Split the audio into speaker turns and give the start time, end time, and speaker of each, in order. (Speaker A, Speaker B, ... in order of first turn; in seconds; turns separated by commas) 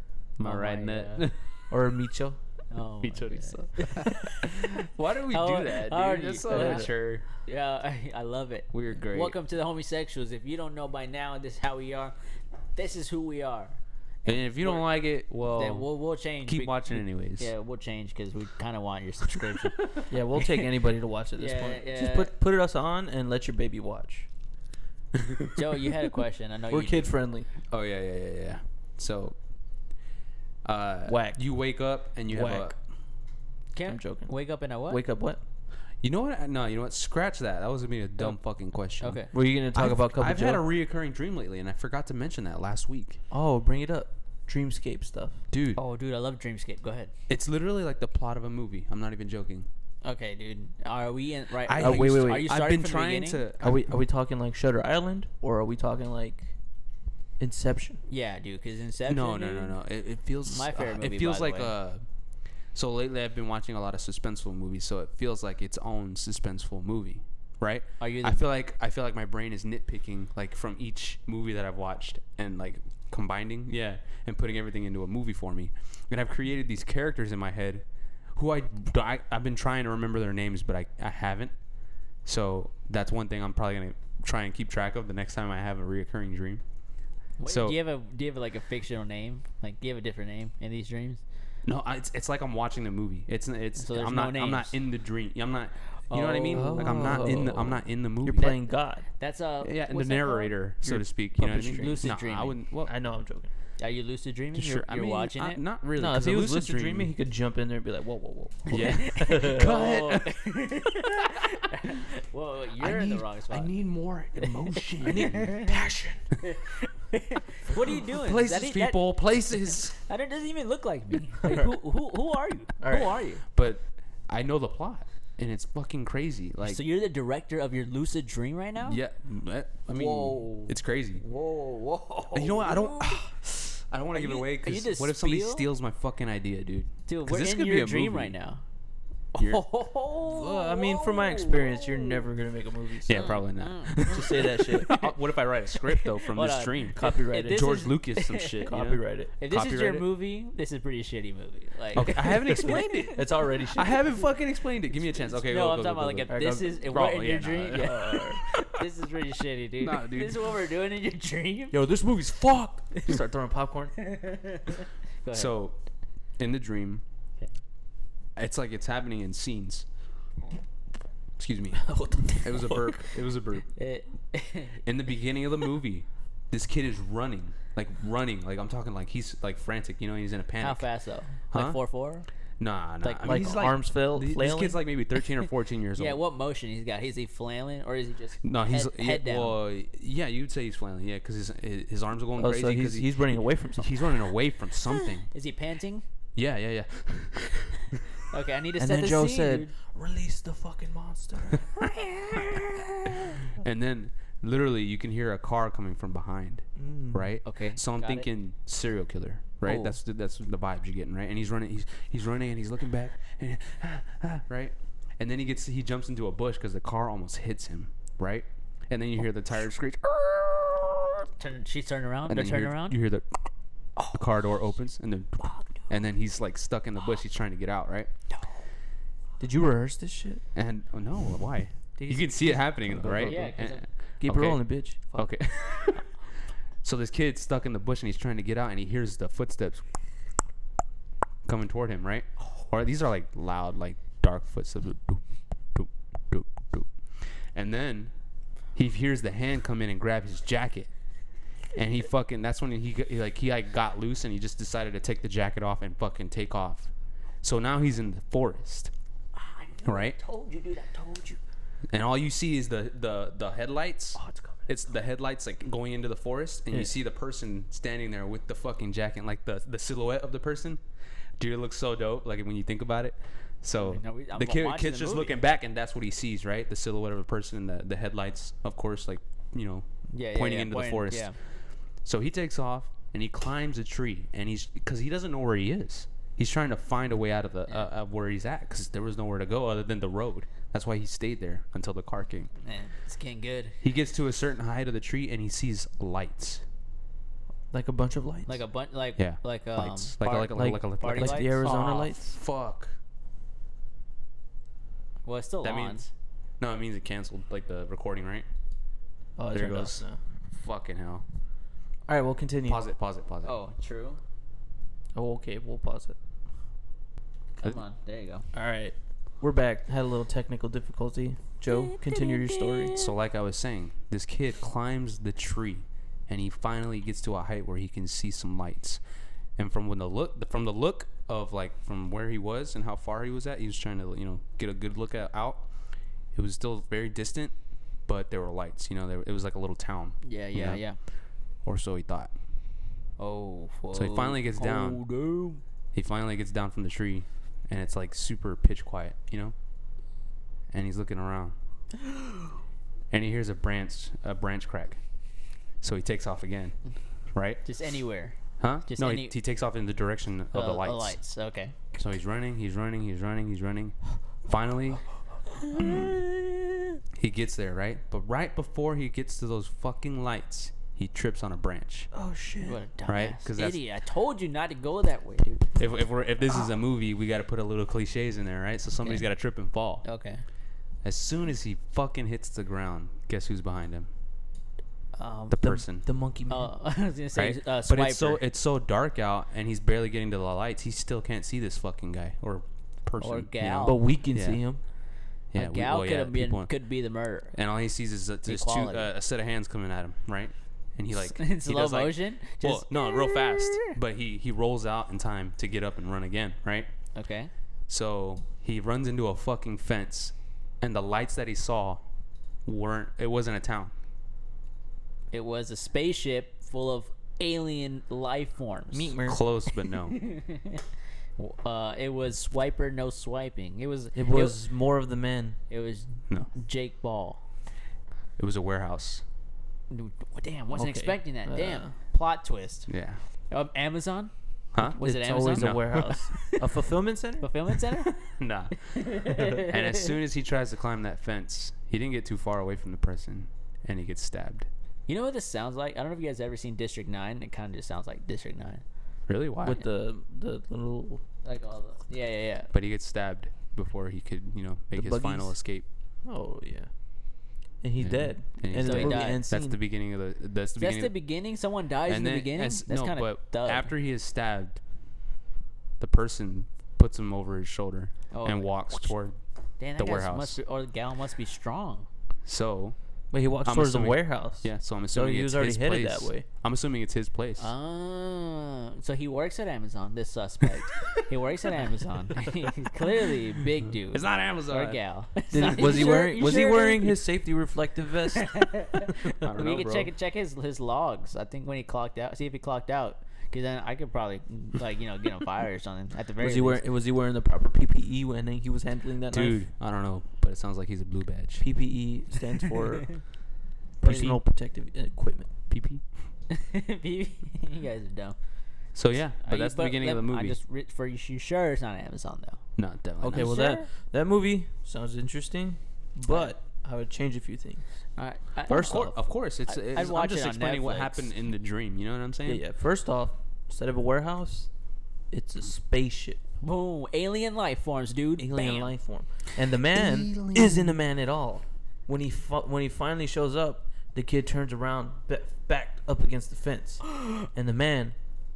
Speaker A: 0.4-1.4, Speaker B: 0.4-1.2, Speaker C: 1.7-2.4, Speaker B: 2.7-12.1, Speaker A: 3.0-7.2, Speaker C: 6.5-6.9, Speaker A: 8.7-9.3, Speaker B: 12.7-13.8, Speaker A: 14.2-15.9, Speaker B: 14.6-14.8, Speaker B: 15.4-20.7, Speaker A: 16.4-17.5, Speaker A: 19.3-19.7, Speaker C: 20.1-24.3, Speaker B: 21.4-22.3, Speaker A: 25.1-25.6, Speaker B: 25.5-27.1, Speaker C: 26.7-27.5, Speaker A: 27.7-29.4, Speaker A: 30.6-32.8, Speaker C: 31.1-31.4, Speaker C: 32.3-32.7, Speaker B: 33.7-35.0, Speaker C: 33.9-34.3, Speaker C: 34.9-35.4, Speaker A: 36.0-43.2, Speaker B: 39.0-39.3, Speaker C: 39.3-40.6, Speaker C: 43.3-45.4, Speaker A: 45.5-45.8, Speaker B: 45.7-47.1, Speaker A: 47.3-49.7, Speaker B: 50.0-53.4, Speaker A: 51.6-53.8, Speaker C: 51.8-52.5, Speaker C: 53.6-56.5, Speaker C: 57.4-58.0, Speaker B: 58.1-59.8, Speaker A: 59.0-62.0, Speaker B: 60.5-61.7, Speaker A: 62.7-81.5, Speaker B: 68.0-68.4, Speaker A: 82.2-86.6, Speaker B: 87.4-91.2, Speaker A: 87.5-87.8, Speaker A: 91.7-98.6, Speaker B: 93.8-94.7, Speaker B: 96.1-97.4, Speaker C: 96.5-99.0, Speaker B: 99.2-100.5, Speaker A: 99.6-102.9, Speaker C: 100.8-102.1, Speaker B: 101.4-102.6, Speaker C: 102.8-103.5, Speaker B: 103.8-105.6, Speaker A: 104.5-107.1, Speaker C: 106.0-109.8, Speaker A: 108.7-110.4, Speaker B: 108.7-113.7, Speaker A: 112.8-115.6, Speaker B: 114.4-115.8, Speaker C: 115.0-116.2, Speaker B: 116.4-119.0, Speaker A: 118.0-120.0, Speaker B: 119.9-123.4, Speaker C: 121.4-121.8, Speaker C: 122.8-123.2, Speaker A: 123.5-126.8, Speaker B: 126.7-129.0, Speaker A: 128.8-131.2, Speaker B: 129.9-133.3, Speaker A: 132.3-138.3, Speaker B: 134.1-135.7, Speaker B: 137.1-138.6, Speaker B: 139.3-142.2, Speaker A: 139.4-139.6, Speaker C: 140.2-143.4, Speaker A: 143.1-150.1, Speaker B: 143.1-145.1, Speaker C: 144.0-144.9, Speaker B: 145.7-148.7, Speaker C: 146.9-147.8, Speaker C: 148.7-149.3, Speaker B: 149.4-153.2, Speaker A: 151.9-158.7, Speaker C: 152.0-154.1, Speaker B: 155.2-161.8, Speaker C: 156.3-156.9, Speaker C: 157.7-158.4, Speaker A: 159.8-160.5, Speaker C: 161.7-163.9, Speaker B: 164.0-165.5, Speaker A: 165.3-165.8, Speaker A: 166.4-167.0, Speaker A: 168.3-169.8, Speaker A: 171.4-173.7, Speaker C: 171.8-173.0, Speaker B: 173.8-174.8, Speaker A: 174.8-180.9, Speaker B: 180.6-182.2, Speaker A: 181.5-181.8, Speaker A: 182.6-186.2, Speaker B: 183.0-183.7, Speaker C: 183.2-184.8, Speaker B: 185.9-189.5, Speaker A: 188.4-195.3, Speaker C: 192.4-193.9, Speaker B: 194.9-196.0, Speaker A: 196.3-198.0, Speaker B: 198.2-199.7, Speaker C: 198.8-201.7, Speaker B: 201.8-203.1, Speaker A: 202.3-202.6, Speaker A: 203.5-221.3, Speaker C: 206.8-207.3, Speaker B: 207.4-208.2, Speaker B: 209.6-209.9, Speaker B: 221.4-223.0, Speaker A: 222.3-223.4, Speaker B: 224.0-224.2, Speaker A: 224.1-228.1, Speaker B: 225.4-225.9, Speaker C: 229.4-230.4, Speaker A: 230.5-236.1, Speaker C: 232.0-233.6, Speaker B: 233.1-233.8, Speaker C: 234.2-235.3, Speaker A: 236.8-239.8, Speaker A: 241.4-245.2, Speaker A: 245.7-246.9, Speaker A: 247.5-248.1, Speaker A: 248.7-250.9, Speaker A: 251.7-256.9, Speaker A: 257.4-258.9, Speaker B: 259.3-261.4, Speaker A: 259.8-260.2, Speaker A: 261.9-270.8, Speaker A: 271.4-281.3, Speaker B: 273.8-275.4, Speaker B: 280.1-281.3, Speaker A: 282.0-292.5, Speaker B: 292.6-293.8, Speaker A: 293.8-296.6, Speaker C: 297.7-298.6, Speaker B: 298.5-302.1, Speaker A: 299.2-302.9, Speaker C: 300.5-302.2, Speaker B: 305.2-306.1, Speaker A: 305.6-306.1, Speaker A: 306.6-308.4, Speaker C: 309.4-310.2, Speaker A: 309.5-311.2, Speaker C: 312.1-312.8, Speaker A: 312.7-313.5, Speaker B: 313.4-314.2, Speaker C: 315.1-316.1, Speaker B: 317.6-318.4, Speaker C: 318.5-322.9, Speaker B: 321.7-323.1, Speaker A: 322.9-329.0, Speaker A: 329.6-335.7, Speaker A: 336.3-337.5, Speaker A: 338.1-340.8, Speaker B: 340.2-341.0, Speaker A: 341.6-342.3, Speaker B: 343.2-345.6, Speaker A: 343.9-345.0, Speaker A: 345.9-349.5, Speaker A: 350.7-351.5, Speaker B: 352.0-352.5, Speaker A: 353.1-355.0, Speaker A: 355.8-356.7, Speaker A: 357.3-357.6, Speaker B: 357.6-358.4, Speaker A: 358.6-361.2, Speaker B: 358.9-359.3, Speaker B: 360.5-361.7, Speaker A: 361.9-365.0, Speaker B: 365.6-367.0, Speaker C: 365.7-366.2, Speaker A: 367.1-372.1, Speaker C: 372.1-372.8, Speaker B: 372.6-375.8, Speaker A: 373.1-373.8, Speaker A: 375.8-380.0, Speaker B: 380.0-380.4, Speaker A: 381.0-384.1, Speaker B: 385.1-385.7, Speaker A: 385.5-386.1, Speaker C: 385.6-386.7, Speaker B: 386.5-388.4, Speaker A: 387.3-394.6, Speaker B: 393.2-394.0, Speaker C: 393.8-394.8, Speaker A: 395.5-396.7, Speaker B: 395.6-397.6, Speaker A: 397.5-406.9, Speaker B: 398.4-399.1, Speaker B: 401.1-403.9, Speaker B: 407.1-407.5, Speaker A: 407.9-412.0, Speaker A: 412.6-413.9, Speaker B: 415.3-419.2, Speaker C: 418.9-419.4, Speaker A: 419.2-420.2, Speaker B: 419.8-420.8, Speaker B: 421.4-424.6, Speaker C: 424.1-425.6, Speaker B: 425.7-427.4, Speaker A: 428.4-429.2, Speaker B: 429.9-432.9, Speaker C: 430.7-431.9, Speaker A: 432.9-433.2, Speaker B: 433.5-436.7, Speaker A: 434.7-436.0, Speaker C: 435.0-437.8, Speaker B: 437.4-438.3, Speaker A: 438.2-444.7, Speaker B: 438.9-440.1, Speaker B: 445.1-448.8, Speaker A: 449.3-449.8, Speaker C: 449.6-451.2, Speaker B: 451.4-452.7, Speaker A: 452.7-455.8, Speaker C: 454.9-455.6, Speaker C: 456.2-456.9, Speaker C: 457.8-459.8, Speaker A: 458.0-461.1, Speaker B: 458.8-459.4, Speaker B: 460.8-463.9, Speaker A: 462.1-464.8, Speaker A: 466.0-469.4, Speaker B: 468.3-469.1, Speaker B: 469.8-472.1, Speaker A: 470.0-470.6, Speaker A: 472.4-472.9, Speaker C: 473.3-476.4, Speaker A: 473.6-477.7, Speaker B: 477.6-487.2, Speaker A: 484.1-485.0, Speaker C: 485.5-488.5, Speaker B: 488.3-496.8, Speaker A: 489.3-490.1, Speaker C: 496.4-499.6, Speaker A: 499.3-501.6, Speaker C: 501.6-503.2, Speaker A: 504.0-504.4, Speaker C: 504.0-505.5, Speaker A: 505.7-506.0, Speaker B: 506.5-508.4, Speaker A: 508.9-510.6, Speaker B: 509.4-512.6, Speaker A: 512.8-513.6, Speaker C: 513.2-517.8, Speaker B: 513.3-513.9, Speaker B: 518.2-519.1, Speaker C: 518.7-519.1, Speaker A: 518.7-522.6, Speaker B: 519.7-521.3, Speaker C: 522.5-524.7, Speaker C: 525.3-526.4, Speaker B: 526.6-528.9, Speaker C: 528.4-538.1, Speaker A: 529.9-530.9, Speaker B: 537.1-537.5